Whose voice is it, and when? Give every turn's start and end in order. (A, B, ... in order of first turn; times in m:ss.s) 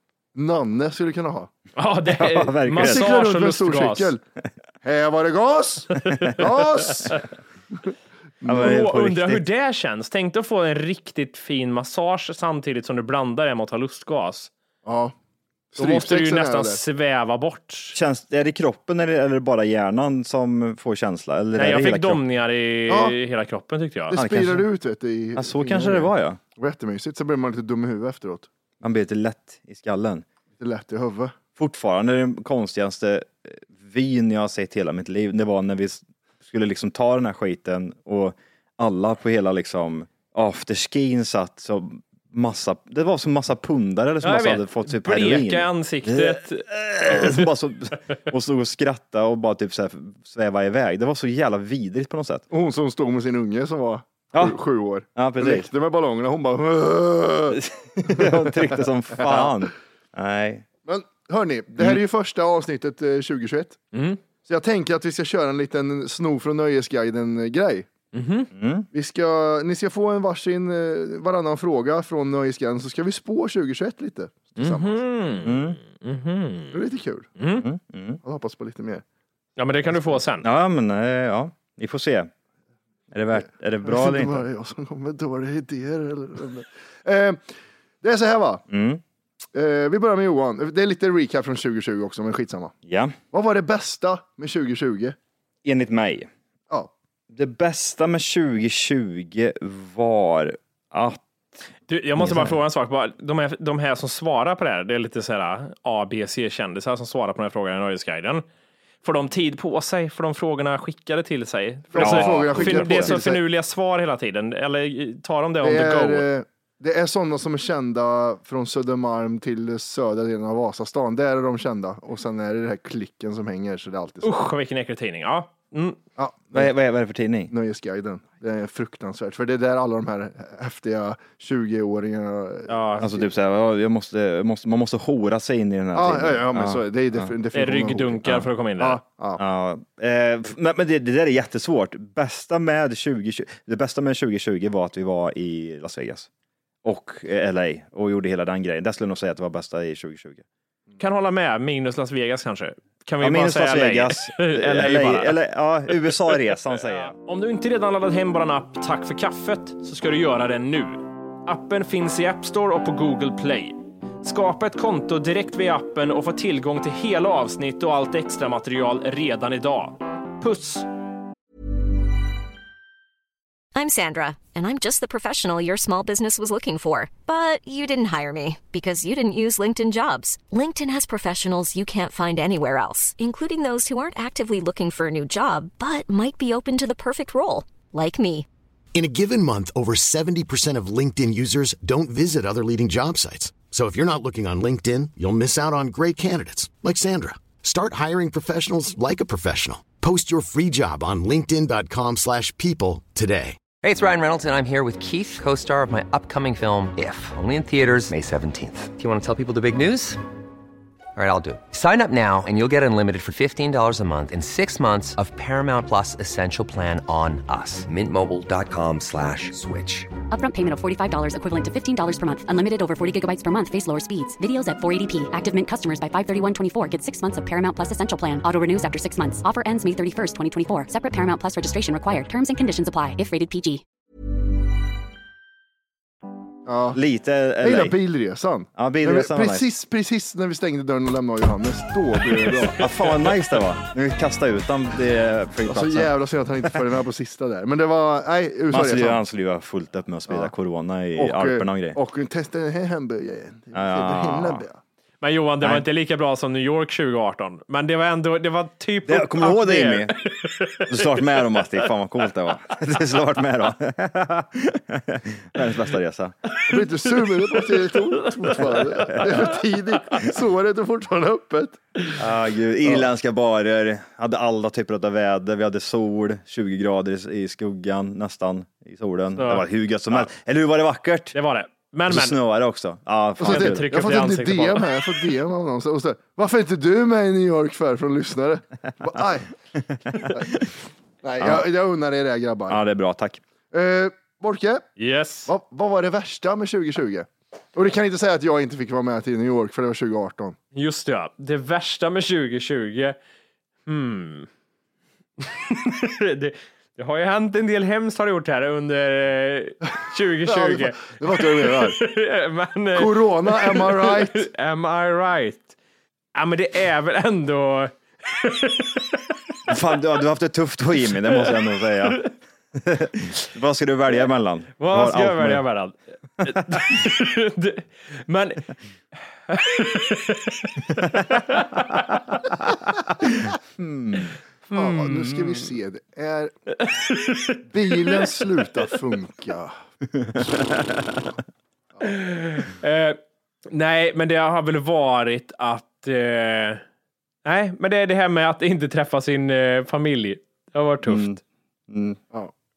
0:00.4-0:01.5 A
0:01.8-0:04.1 B
0:02.1-0:03.2 C
0:02.7-0:04.2 A
0:04.8-0:07.3 A
0:06.2-0:06.4 C
0:08.4-0:08.7 A
0:08.4-0:09.4 C
0:08.6-0:14.5 B
0:14.8-0:15.1 A
0:15.7-0:16.8 A
0:15.8-0:18.0 B
0:17.9-0:22.2 C
0:21.6-0:24.2 B
0:22.9-0:23.2 A
0:24.1-0:28.5 A
0:24.1-0:24.7 C
0:25.4-0:26.4 C
0:28.8-0:30.2 C
0:30.6-0:31.4 A
0:31.6-0:52.5 C
0:44.2-0:47.5 B
0:52.5-0:59.7 A
0:55.2-0:55.7 C
0:57.5-1:00.7 C
1:00.9-1:03.8 A
1:03.9-1:04.2 B
1:04.4-1:07.9 A
1:08.1-1:08.5 B
1:08.5-1:08.9 C
1:08.9-1:15.5 A
1:14.6-1:16.8 B
1:15.4-1:15.8 C
1:16.7-1:17.3 A
1:17.4-1:17.6 B
1:17.6-1:18.2 C
1:18.2-1:19.0 A
1:19.6-1:20.5 B
1:20.4-1:22.3 C
1:23.1-1:24.4 C
1:23.4-1:27.4 A
1:28.0-1:28.6 A
1:28.7-1:29.0 C
1:29.5-1:32.7 A
1:32.9-1:33.2 C
1:33.3-1:35.2 A
1:35.6-1:36.3 C
1:37.3-1:41.2 C
1:41.9-1:48.4 B
1:42.2-1:42.6 C
1:49.0-1:56.3 B
1:51.9-1:53.4 A
1:52.0-1:53.2 C
1:55.6-2:04.3 A
2:04.2-2:06.0 B
2:06.2-2:06.7 A
2:06.5-2:07.5 C
2:07.5-2:13.2 A
2:12.7-2:13.1 B
2:13.0-2:17.4 C
2:16.0-2:19.4 A
2:17.5-2:19.0 B
2:19.4-2:26.3 C
2:26.8-2:30.4 C
2:31.0-2:35.4 B
2:33.2-2:37.1 C
2:35.9-2:50.9 B
2:53.7-3:08.5 D
3:08.9-3:23.6 E
3:23.8-3:30.2 F
3:31.2-3:40.1 F
3:40.3-3:53.8 G
3:56.7-3:57.0 A
3:56.9-3:58.0 C
3:57.6-4:02.8 A
3:58.8-3:59.7 C
4:02.8-4:06.8 C
4:05.7-4:09.2 A
4:08.7-4:12.0 C
4:11.2-4:14.8 A
4:13.7-4:14.6 C
4:15.2-4:21.8 B
4:15.6-4:15.9 C
4:19.0-4:20.2 C
4:20.9-4:26.3 C
4:26.7-4:32.2 A
4:26.8-4:29.4 B
4:32.2-4:41.4 C
4:39.4-4:40.3 B
4:41.3-4:42.4 B
4:42.1-4:43.9 C
4:43.4-4:49.5 A
4:43.5-4:45.2 B
4:49.8-4:50.2 C
4:50.3-4:52.8 A
4:51.4-4:51.7 C
4:52.7-4:53.4 C
4:53.7-4:54.9 A
4:55.0-4:55.5 B
4:55.5-5:00.6 A
5:00.8-5:03.2 B
5:03.9-5:04.5 B
5:05.4-5:15.8 B
5:10.4-5:12.0 A
5:13.0-5:14.5 A
5:16.4-5:19.3 B
5:19.7-5:25.6 C
5:21.3-5:22.3 B
5:24.8-5:28.7 B
5:26.5-5:26.9 C
5:29.5-5:32.2 B
5:33.3-5:34.4 C
5:34.7-5:35.7 B
5:34.7-5:36.5 A
5:36.8-5:38.6 B
5:37.7-5:39.7 A
5:40.2-5:41.2 C
5:42.0-5:46.8 B
5:47.4-5:51.4 B
5:51.0-5:52.2 C